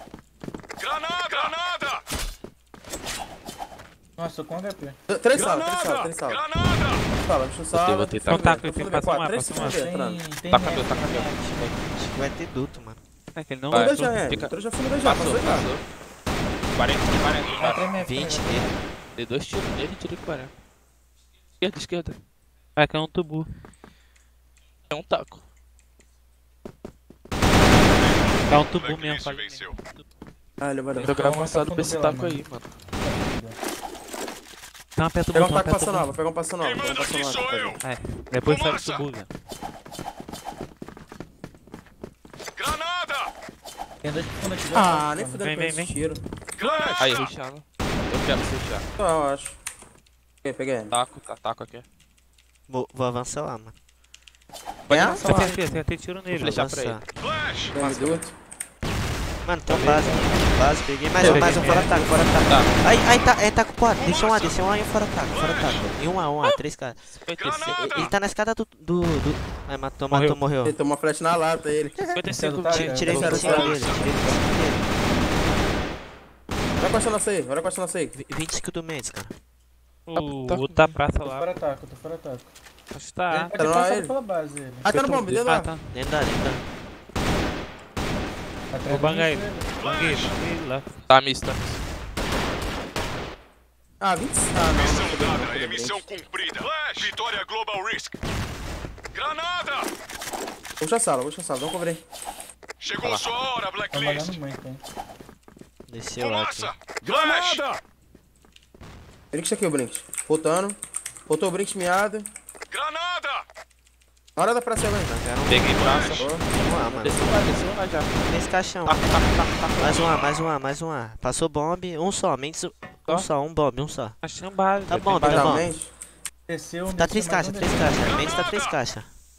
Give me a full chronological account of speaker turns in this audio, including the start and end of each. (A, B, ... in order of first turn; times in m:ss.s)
0:00.8-0:02.0 A
0:04.2-0:05.0 B
0:05.1-0:06.4 C
0:05.3-0:07.1 A
0:07.1-0:10.2 C
0:07.8-0:08.7 D
0:08.3-0:09.8 E
0:09.5-0:11.7 B
0:10.5-0:11.9 D
0:12.0-0:13.0 F
0:13.4-0:14.2 E
0:13.7-0:15.7 C
0:13.7-0:15.8 D
0:16.7-0:17.9 D
0:17.2-0:17.6 A
0:17.6-0:18.7 B
0:18.0-0:18.7 F
0:19.1-0:20.6 D
0:21.6-0:22.2 D
0:22.8-0:23.5 E
0:24.9-0:25.4 D
0:28.0-0:29.8 A
0:28.5-0:30.0 E
0:30.6-0:31.2 C
0:31.0-0:32.7 D
0:31.1-0:32.4 B
0:33.0-0:33.6 B
0:35.0-0:36.1 E
0:35.3-0:37.8 C
0:36.6-0:37.8 A
0:37.8-0:39.3 E
0:38.4-0:39.1 A
0:42.6-0:43.3 A
0:44.0-0:45.4 B
0:44.7-0:46.2 C
0:45.4-0:46.0 E
0:46.6-0:47.3 A
0:47.0-0:48.8 D
0:49.0-0:49.6 C
0:50.4-0:50.9 C
0:50.9-0:51.8 D
0:52.7-0:53.7 F
0:54.9-0:55.4 D
0:54.9-0:55.2 C
0:55.2-0:56.6 E
0:55.2-0:55.8 B
0:56.3-0:57.0 D
0:56.3-0:57.0 F
0:57.2-0:57.8 A
0:57.7-0:58.3 C
0:57.8-0:58.2 D
0:59.4-1:10.8 F
0:59.7-1:00.4 E
1:01.2-1:01.9 E
1:01.2-1:01.6 D
1:01.2-1:02.2 C
1:02.5-1:02.8 D
1:04.0-1:04.6 A
1:05.3-1:06.0 A
1:07.2-1:08.1 D
1:07.4-1:08.2 A
1:10.1-1:10.4 E
1:10.6-1:12.1 C
1:12.1-1:14.4 D
1:12.3-1:13.4 B
1:12.7-1:14.9 F
1:13.1-1:13.8 C
1:13.6-1:14.1 A
1:16.8-1:18.1 C
1:18.1-1:19.4 F
1:20.1-1:21.6 E
1:20.1-1:21.0 D
1:21.2-1:22.5 B
1:22.9-1:23.5 E
1:23.3-1:24.9 B
1:23.6-1:24.1 C
1:24.8-1:25.7 C
1:24.9-1:25.9 E
1:25.9-1:26.6 F
1:28.7-1:29.7 B
1:28.9-1:30.9 E
1:29.7-1:30.4 A
1:31.1-1:31.8 D
1:34.0-1:36.0 C
1:34.6-1:38.1 A
1:39.1-1:39.9 A
1:40.8-1:42.0 C
1:42.8-1:44.4 A
1:43.9-1:44.8 B
1:45.9-1:46.7 F
1:46.2-1:47.8 A
1:49.3-1:50.8 C
1:51.3-1:52.3 C
1:52.7-1:53.4 A
1:54.4-1:55.2 C
1:55.1-1:57.5 F
1:55.5-1:58.1 D
1:55.8-1:56.2 A
1:56.2-1:56.5 C
1:58.2-1:59.1 F
1:58.8-2:00.1 D
1:59.8-2:04.2 F
2:04.2-2:05.6 E
2:04.9-2:05.7 F
2:05.2-2:05.9 C
2:06.5-2:08.5 B
2:07.0-2:09.1 F
2:08.0-2:08.8 A